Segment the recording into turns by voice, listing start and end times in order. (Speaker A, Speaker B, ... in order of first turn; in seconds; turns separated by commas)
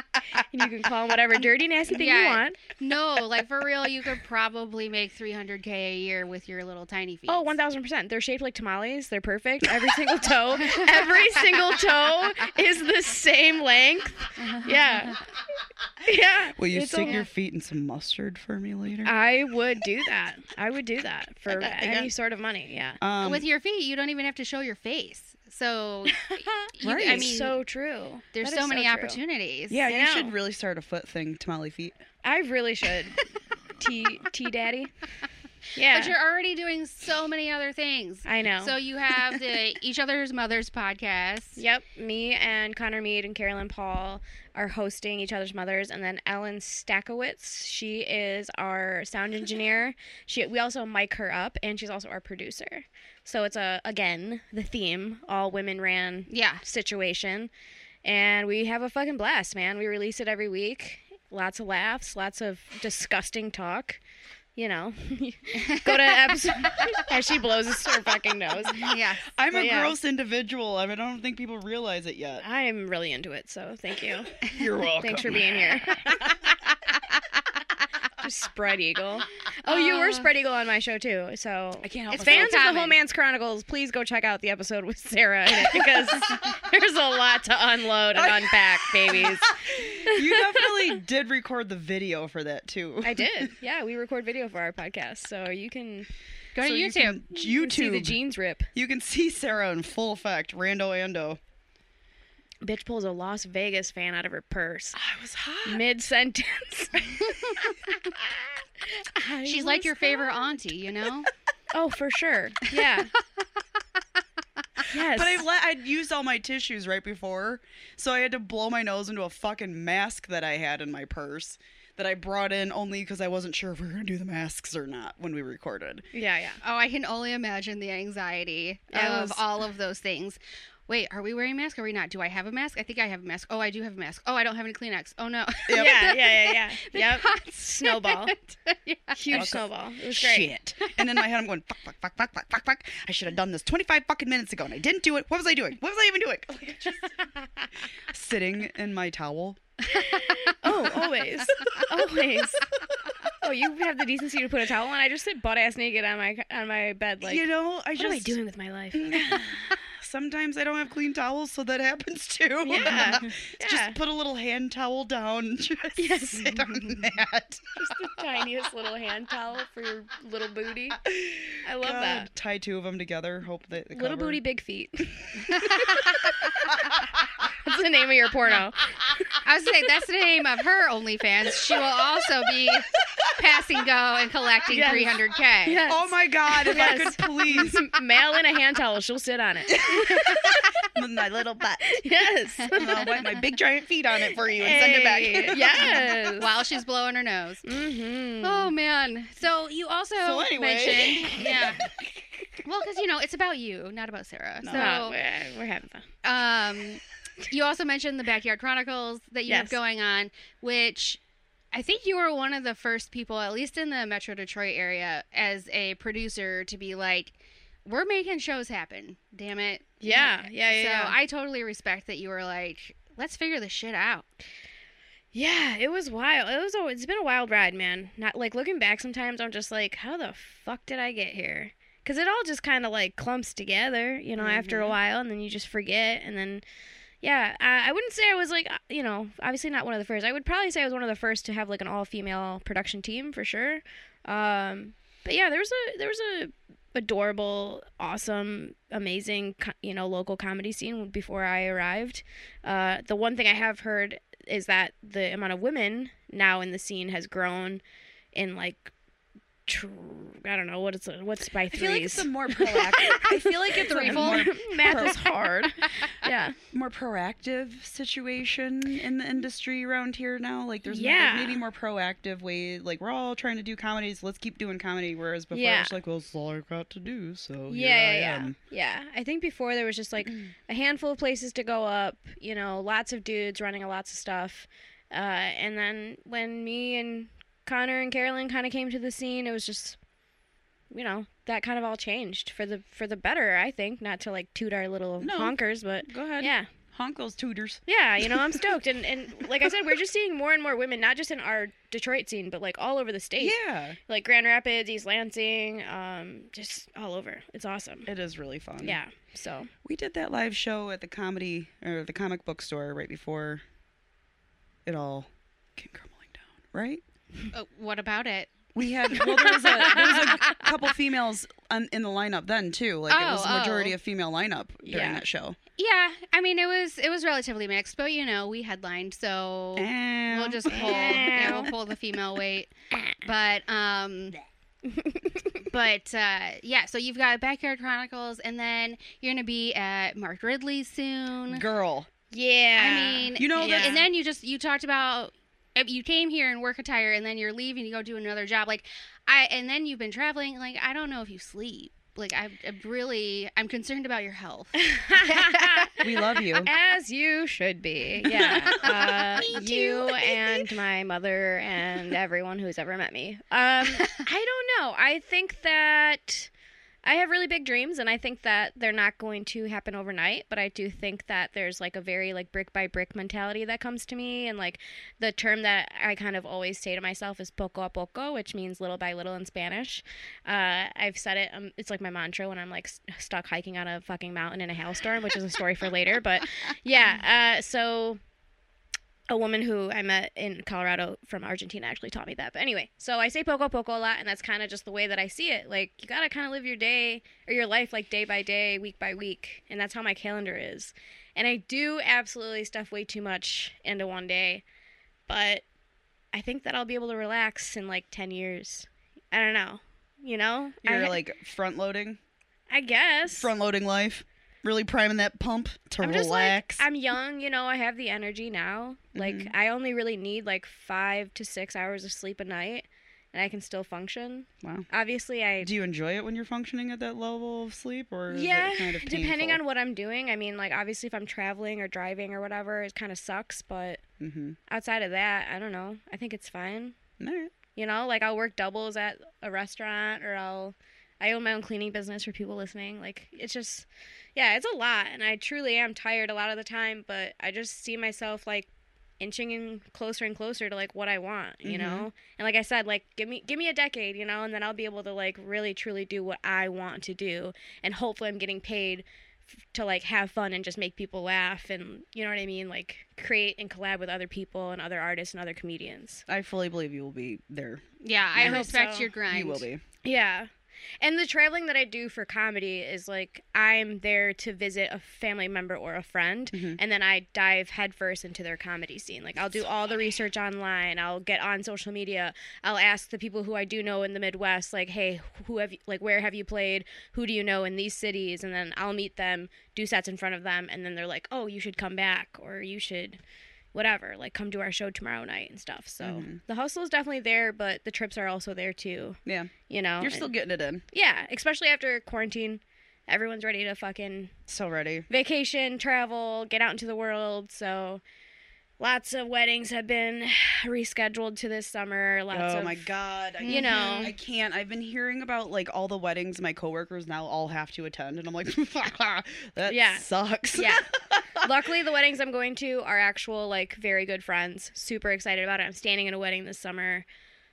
Speaker A: 0.3-2.6, Speaker B: 1.9-7.5, Speaker A: 7.3-15.2, Speaker B: 10.6-11.2, Speaker B: 14.4-14.8, Speaker A: 16.0-17.3, Speaker C: 16.5-19.1, Speaker A: 19.0-23.0, Speaker C: 21.4-22.1, Speaker C: 23.0-23.4, Speaker B: 23.2-27.6, Speaker A: 26.2-29.2, Speaker C: 26.8-27.3, Speaker B: 28.3-29.8, Speaker C: 29.7-31.9, Speaker A: 29.9-30.3, Speaker A: 32.2-33.2, Speaker A: 33.8-34.9, Speaker A: 35.7-36.1, Speaker B: 35.9-41.6, Speaker A: 38.2-38.7, Speaker A: 41.5-57.5, Speaker B: 56.3-56.6, Speaker A: 58.0-64.0, Speaker A: 64.5-68.9, Speaker B: 65.5-67.0, Speaker B: 68.7-69.3, Speaker C: 68.8-72.4, Speaker A: 69.5-70.0, Speaker A: 72.4-76.4, Speaker C: 74.3-76.0, Speaker A: 78.2-90.7, Speaker B: 79.7-80.2, Speaker C: 81.8-82.6, Speaker B: 82.1-83.0, Speaker C: 88.1-93.5, Speaker A: 93.0-96.1, Speaker B: 96.5-97.2, Speaker C: 96.6-98.2, Speaker A: 97.3-98.7, Speaker C: 98.7-101.4, Speaker A: 102.6-105.0, Speaker C: 104.9-105.8, Speaker A: 105.6-107.6, Speaker A: 109.0-110.4, Speaker B: 109.4-111.3, Speaker A: 111.7-113.1, Speaker A: 114.9-115.4, Speaker C: 115.0-126.0, Speaker A: 126.1-126.6, Speaker B: 126.6-139.2, Speaker A: 128.9-129.4, Speaker C: 135.7-136.0, Speaker A: 135.7-138.3, Speaker A: 139.1-140.5, Speaker C: 139.3-147.1, Speaker C: 148.1-149.6, Speaker A: 149.9-152.7, Speaker A: 153.4-159.7, Speaker C: 157.2-158.4, Speaker C: 158.9-167.8, Speaker A: 162.6-164.0, Speaker A: 166.0-167.0, Speaker A: 167.8-171.0, Speaker C: 170.9-174.4, Speaker A: 171.6-172.3, Speaker A: 173.9-176.7, Speaker A: 177.5-179.3, Speaker B: 179.3-185.9, Speaker A: 184.7-190.4, Speaker C: 185.8-187.8, Speaker C: 189.7-192.0, Speaker B: 190.1-190.7, Speaker A: 191.8-192.9, Speaker B: 192.6-193.4, Speaker C: 192.7-195.9, Speaker A: 194.5-196.5, Speaker B: 195.8-197.8, Speaker A: 197.7-198.7, Speaker B: 198.4-201.8, Speaker C: 200.2-201.9, Speaker A: 201.2-201.9, Speaker B: 202.6-205.2, Speaker C: 204.6-204.9, Speaker A: 204.7-206.1, Speaker B: 206.2-211.2, Speaker A: 209.5-209.8, Speaker B: 211.7-224.4, Speaker A: 220.0-221.1, Speaker A: 225.3-236.6, Speaker C: 234.4-234.9, Speaker A: 237.2-257.8, Speaker A: 258.3-258.9, Speaker A: 259.6-266.6, Speaker C: 261.7-265.2, Speaker B: 263.9-265.1, Speaker C: 266.7-278.6, Speaker A: 270.9-271.6, Speaker A: 275.5-275.9, Speaker A: 277.7-290.0, Speaker A: 290.9-296.7, Speaker C: 295.2-298.8, Speaker A: 297.9-303.5, Speaker C: 299.4-300.0, Speaker C: 303.4-304.0, Speaker A: 304.1-308.1, Speaker C: 308.1-309.0, Speaker A: 308.8-309.7, Speaker C: 309.8-313.6, Speaker C: 314.8-317.0, Speaker B: 317.5-320.6, Speaker C: 318.7-325.6, Speaker A: 319.2-320.6, Speaker B: 323.1-323.9, Speaker A: 324.8-325.2, Speaker B: 325.8-334.3, Speaker C: 329.8-331.7, Speaker A: 330.7-331.7, Speaker A: 334.9-335.6, Speaker B: 335.7-341.6, Speaker C: 341.5-342.1, Speaker A: 342.3-344.1, Speaker B: 342.8-356.1, Speaker C: 343.4-344.0, Speaker A: 354.7-356.0, Speaker C: 356.0-356.7, Speaker A: 356.6-366.5, Speaker B: 358.4-360.6, Speaker C: 358.5-358.8, Speaker C: 359.5-359.9, Speaker A: 367.0-388.2, Speaker A: 389.3-404.6, Speaker A: 405.3-405.6, Speaker A: 406.3-411.2, Speaker C: 410.8-412.2, Speaker A: 412.7-413.5, Speaker C: 413.3-416.8, Speaker A: 416.0-425.7, Speaker C: 419.1-419.5, Speaker C: 425.6-429.6, Speaker A: 428.3-434.0, Speaker C: 434.2-434.6, Speaker A: 434.7-437.0, Speaker C: 437.2-437.5, Speaker A: 437.7-448.7, Speaker A: 449.2-459.0, Speaker C: 451.6-452.1, Speaker A: 459.7-466.2, Speaker C: 466.3-467.8, Speaker B: 468.0-469.6, Speaker C: 468.3-468.7, Speaker A: 468.4-469.1, Speaker C: 469.3-469.8, Speaker A: 470.0-470.5, Speaker A: 471.0-493.2, Speaker C: 476.5-476.8, Speaker A: 493.7-500.3, Speaker C: 496.0-496.4, Speaker C: 499.2-500.8, Speaker A: 500.9-504.3, Speaker C: 504.5-505.1, Speaker A: 505.1-508.0, Speaker A: 508.8-512.9, Speaker C: 512.3-521.6, Speaker B: 513.4-514.1, Speaker A: 513.5-514.1, Speaker A: 519.6-520.9, Speaker A: 521.4-527.0